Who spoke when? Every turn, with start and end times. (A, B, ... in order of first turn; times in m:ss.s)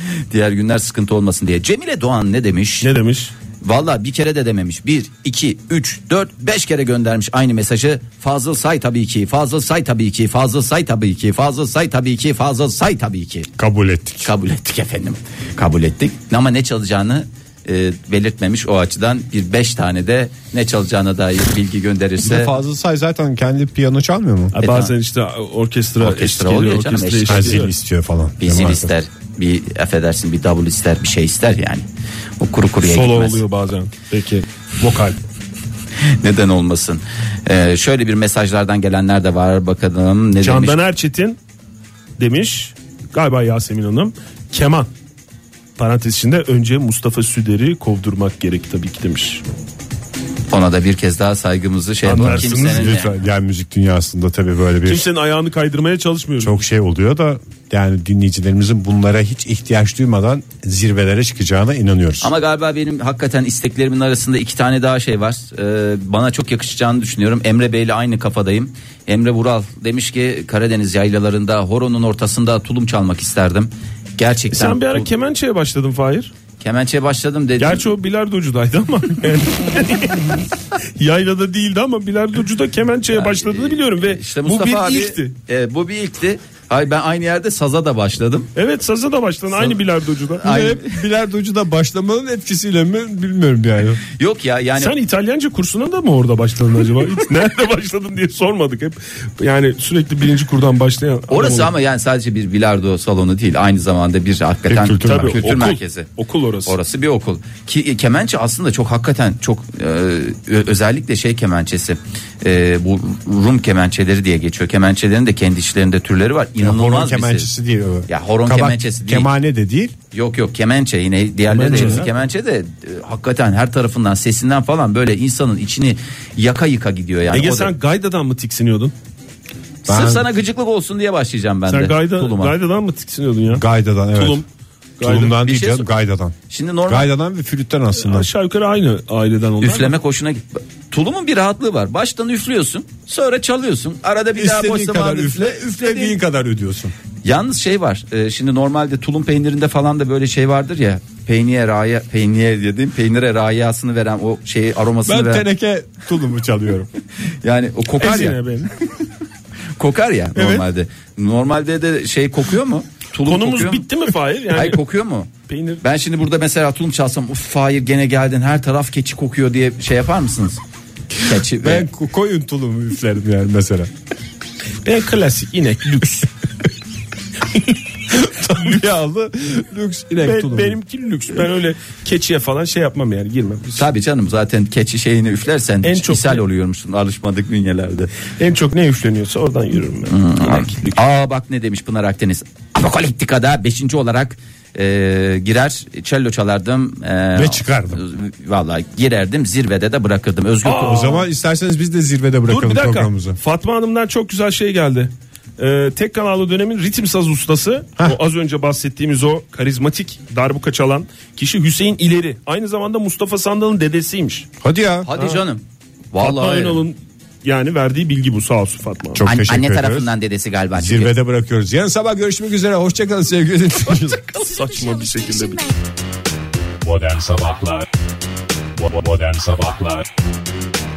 0:00.2-0:02.9 A
0:02.8-0:03.3 B
0:03.6-0:13.5 A
0:13.6-0:14.3 C
0:14.2-0:22.5 A
0:22.2-0:24.6 C
0:24.5-0:27.7 B
0:24.6-0:24.9 A
0:26.0-0:27.7 A
0:27.3-0:28.9 C
0:28.4-0:31.8 A
0:32.4-0:33.4 A
0:32.8-0:35.2 B
0:36.1-0:40.8 A
0:40.4-0:41.4 B
0:42.2-0:44.9 B
0:45.8-0:49.4 B
0:50.5-0:53.1 A
0:52.0-0:53.0 B
0:52.1-0:55.1 C
0:54.9-0:56.6 B
0:56.4-1:02.3 C
1:02.2-1:15.1 A
1:14.5-1:16.3 B
1:16.6-1:17.9 A
1:17.6-1:20.4 B
1:21.0-1:25.3 B
1:23.1-1:28.5 A
1:28.6-1:30.6 B
1:30.4-1:31.0 A
1:30.4-1:34.0 C
1:34.2-1:35.0 A
1:34.8-1:41.7 B
1:41.3-1:46.1 A
1:44.7-1:45.7 C
1:45.0-1:46.8 B
1:46.7-1:57.5 A
1:56.6-2:00.0 C
1:58.1-1:59.3 A
2:00.1-2:07.7 A
2:01.5-2:02.1 B
2:01.5-2:02.1 C
2:07.3-2:08.9 B
2:09.9-2:12.6 A
2:09.9-2:10.3 C
2:11.7-2:13.6 B
2:13.5-2:14.4 C
2:14.2-2:14.5 B
2:15.0-2:15.4 B
2:15.0-2:16.4 C
2:15.3-2:15.9 A
2:16.5-2:17.1 A
2:16.9-2:18.3 C
2:18.0-2:19.9 B
2:19.6-2:26.2 A
2:24.4-2:26.9 C
2:27.2-2:35.4 A
2:35.1-2:36.9 C
2:37.4-2:38.4 A
2:38.0-2:38.7 B
2:39.8-2:43.9 A
2:43.3-2:44.8 B
2:44.5-2:45.3 A
2:45.5-2:45.8 B
2:45.8-2:50.6 A
2:51.2-2:51.9 A
2:51.6-2:53.9 C
2:54.8-2:56.3 B
2:58.1-3:00.8 C
3:00.2-3:03.9 B
3:03.8-3:08.1 A
3:05.8-3:06.4 B
3:08.3-3:11.0 B
3:10.1-3:21.2 A
3:17.4-3:18.0 C
3:20.6-3:21.2 B
3:20.8-3:23.4 C
3:22.5-3:34.5 B
3:34.6-3:35.1 C
3:35.1-3:36.8 A
3:35.2-3:35.4 B
3:36.2-3:39.2 B
3:39.1-3:40.1 C
3:39.2-3:41.1 A
3:40.8-3:44.2 C
3:43.9-3:45.7 B
3:46.8-3:47.9 C
3:48.8-3:50.1 C